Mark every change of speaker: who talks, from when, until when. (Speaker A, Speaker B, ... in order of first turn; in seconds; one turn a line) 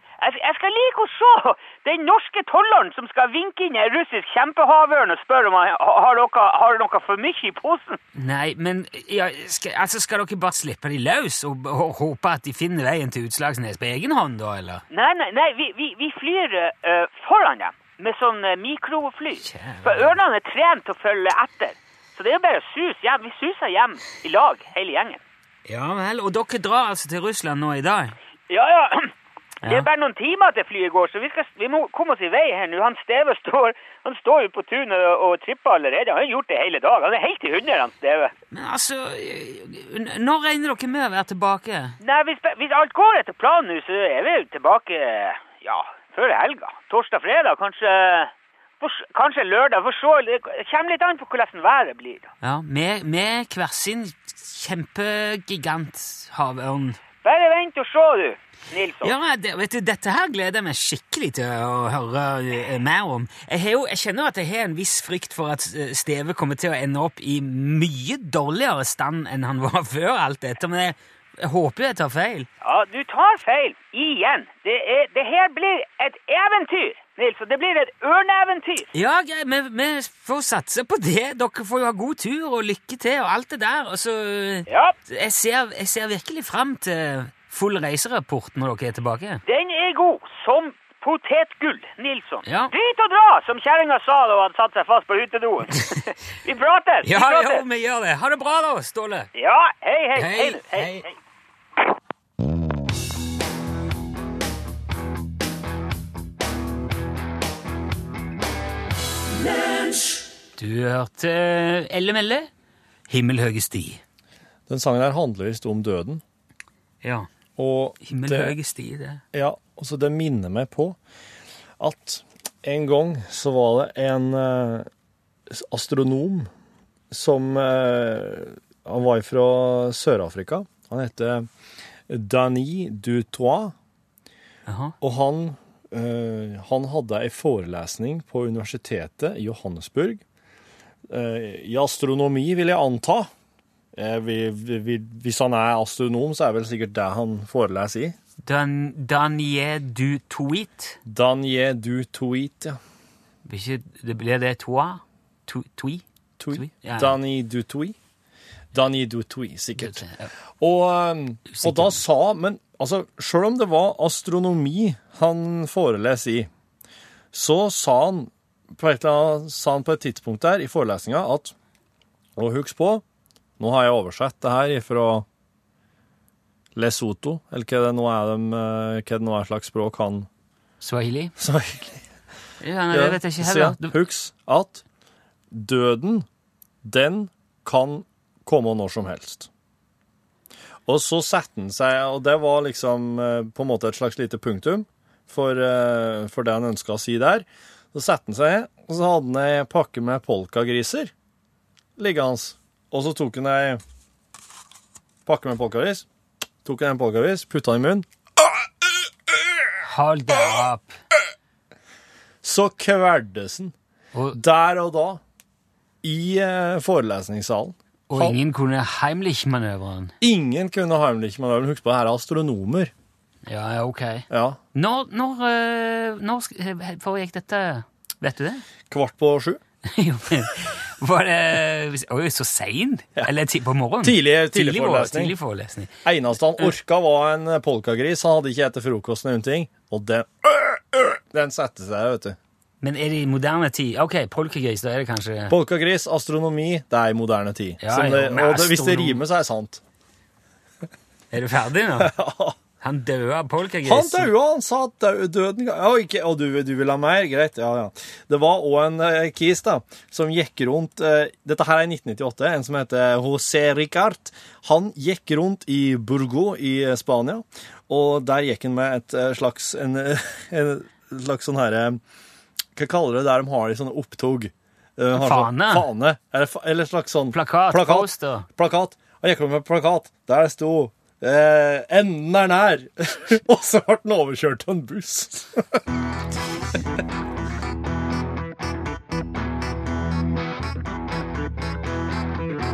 Speaker A: 0.2-8.0
Speaker B: 8.2-14.8
Speaker A: 14.9-25.2
Speaker B: 19.4-20.1
Speaker B: 25.6-28.1
Speaker A: 28.5-29.1
Speaker B: 29.6-29.9
Speaker A: 29.6-38.3
Speaker B: 38.5-42.0
Speaker A: 42.0-52.3
Speaker B: 52.4-57.0
Speaker A: 57.2-59.1
Speaker B: 59.0-72.5
Speaker A: 72.6-78.9
Speaker B: 78.9-89.4
Speaker A: 84.7-84.9
Speaker A: 89.5-97.6
Speaker B: 92.5-92.7
Speaker B: 97.0-99.3
Speaker A: 99.3-101.1
Speaker B: 100.2-101.0
Speaker B: 110.6-112.5
Speaker B: 113.1-114.0
Speaker C: 114.7-116.2
Speaker B: 117.0-117.3
Speaker C: 117.6-118.5
Speaker B: 118.0-119.2
Speaker C: 119.3-121.0
Speaker C: 121.8-124.9
Speaker C: 125.5-126.5
Speaker C: 127.1-131.5
Speaker C: 132.1-133.7
Speaker B: 134.7-134.9
Speaker C: 135.0-140.2
Speaker C: 141.1-143.3
Speaker C: 143.9-148.2
Speaker B: 148.4-151.0
Speaker C: 151.0-152.8
Speaker B: 153.4-157.2
Speaker C: 156.4-157.9
Speaker C: 158.7-160.0
Speaker B: 159.8-160.3
Speaker C: 160.6-166.5
Speaker B: 161.5-162.0
Speaker C: 167.3-171.5
Speaker C: 172.3-173.0
Speaker C: 173.6-175.2
Speaker C: 176.7-180.3
Speaker B: 180.8-181.3
Speaker C: 181.4-182.0
Speaker B: 182.6-184.0
Speaker C: 182.9-184.8
Speaker C: 185.5-186.2
Speaker C: 186.8-189.5
Speaker C: 190.9-201.1
Speaker C: 202.0-203.8
Speaker C: 205.2-206.1
Speaker C: 206.6-208.1
Speaker B: 209.8-210.9
Speaker C: 212.4-213.7
Speaker C: 214.3-215.2
Speaker C: 216.0-218.4
Speaker B: 218.1-220.1
Speaker C: 220.2-222.9
Speaker B: 223.4-228.6
Speaker C: 224.3-224.6
Speaker C: 228.9-229.6
Speaker B: 229.8-235.9
Speaker C: 234.0-235.3
Speaker C: 236.0-242.4
Speaker B: 242.8-245.5
Speaker C: 245.5-249.8
Speaker B: 247.8-249.2
Speaker B: 251.3-252.1
Speaker C: 252.0-252.6
Speaker B: 252.8-254.3
Speaker C: 253.8-272.0
Speaker C: 272.8-285.8
Speaker B: 275.1-275.9
Speaker B: 277.3-278.5